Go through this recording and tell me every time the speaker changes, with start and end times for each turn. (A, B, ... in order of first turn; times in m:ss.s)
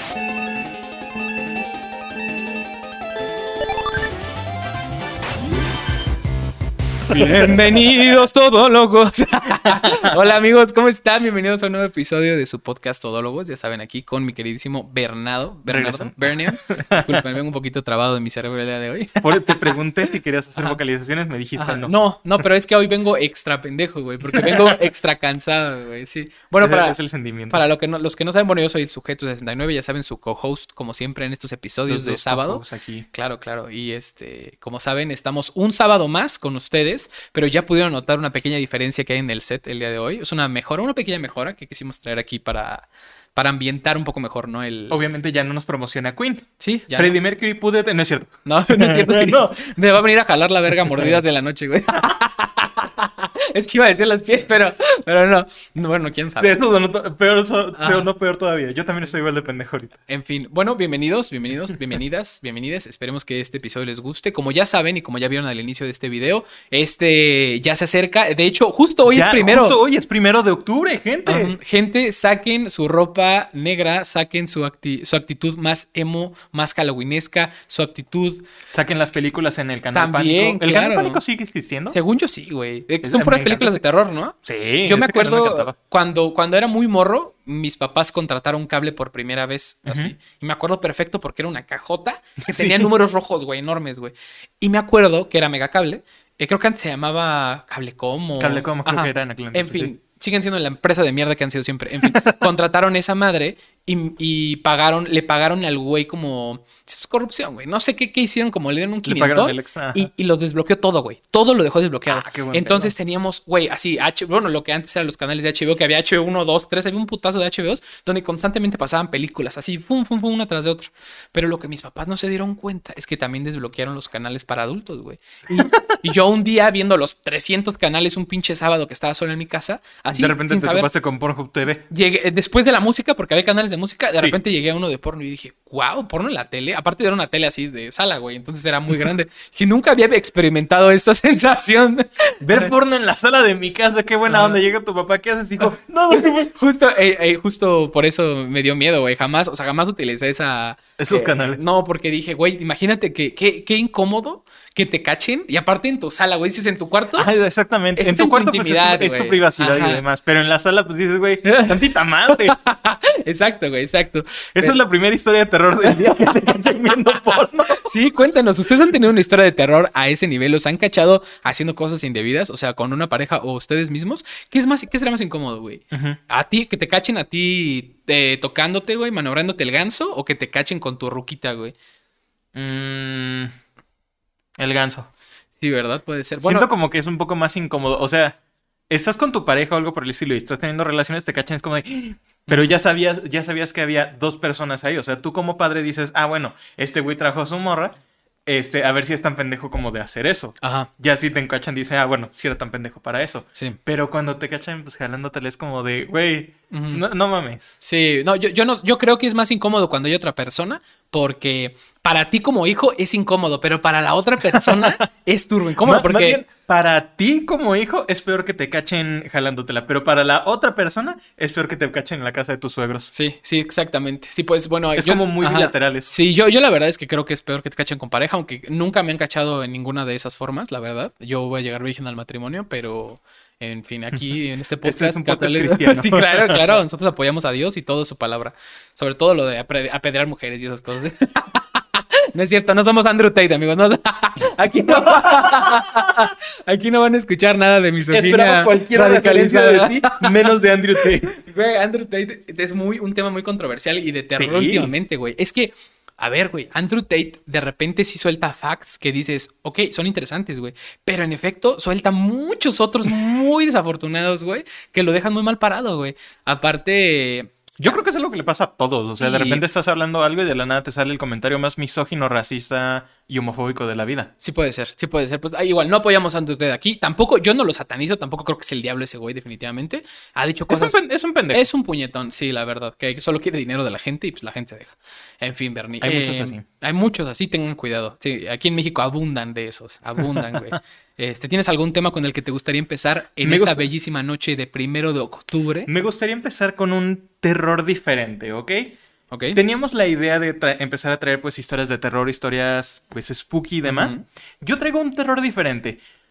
0:07.1-0:07.9 A
0:07.1-0:19.8 B
0:09.9-0:10.1 A
0:15.7-0:17.2 A
0:19.2-0:22.4 A
0:21.6-0:27.0 B
0:24.2-0:24.8 A
0:26.6-0:27.6 A
0:27.5-0:32.6 B
0:31.9-0:33.1 A
0:33.1-0:45.0 B
0:44.9-0:49.7 A
0:46.6-0:47.1 B
0:48.5-0:56.5 B
0:56.4-1:00.0 A
0:57.8-0:58.1 B
1:00.1-1:09.8 B
1:09.1-1:11.6 A
1:11.3-1:18.4 B
1:18.7-1:22.0 A
1:19.9-1:21.2 B
1:21.9-2:10.9 B
1:23.0-1:23.8 A
1:24.4-1:25.8 A
1:29.9-1:30.1 A
1:32.4-1:32.9 A
1:38.4-1:39.9 A
1:42.0-1:42.5 A
1:49.0-1:50.1 A
1:52.1-1:52.9 A
2:05.5-2:06.1 A
2:10.1-2:11.8 A
2:11.9-2:22.7 B
2:22.4-2:26.5 A
2:24.3-2:24.6 B
2:25.6-2:37.3 B
2:31.0-2:31.6 A
2:37.2-2:42.6 A
2:38.0-2:40.0 B
2:41.4-2:44.8 B
2:44.5-2:47.9 A
2:45.8-2:47.3 B
2:47.8-3:01.8 B
2:55.9-2:56.2 A
3:02.6-3:03.5 A
3:04.6-3:05.1 A
3:05.6-3:06.7 B
3:06.4-3:08.4 A
3:08.9-3:27.8 A
3:12.5-3:12.7 B
3:20.6-3:20.9 B
3:26.7-3:27.0 B
3:27.8-3:36.4 B
3:34.6-3:35.1 A
3:35.8-3:43.1 A
3:43.1-4:10.4 B
3:45.0-3:46.2 A
3:54.8-3:56.8 A
4:04.9-4:06.0 A
4:08.1-4:11.4 A
4:11.0-4:28.0 B
4:14.4-4:14.9 A
4:27.8-4:34.3 A
4:29.1-4:29.6 B
4:34.4-4:41.0 B
4:40.7-4:41.7 A
4:41.5-4:55.9 B
4:46.0-4:46.6 A
4:53.4-4:53.9 A
4:55.9-4:58.9 A
4:59.3-4:59.6 B
4:59.5-5:06.0 A
5:03.9-5:04.2 B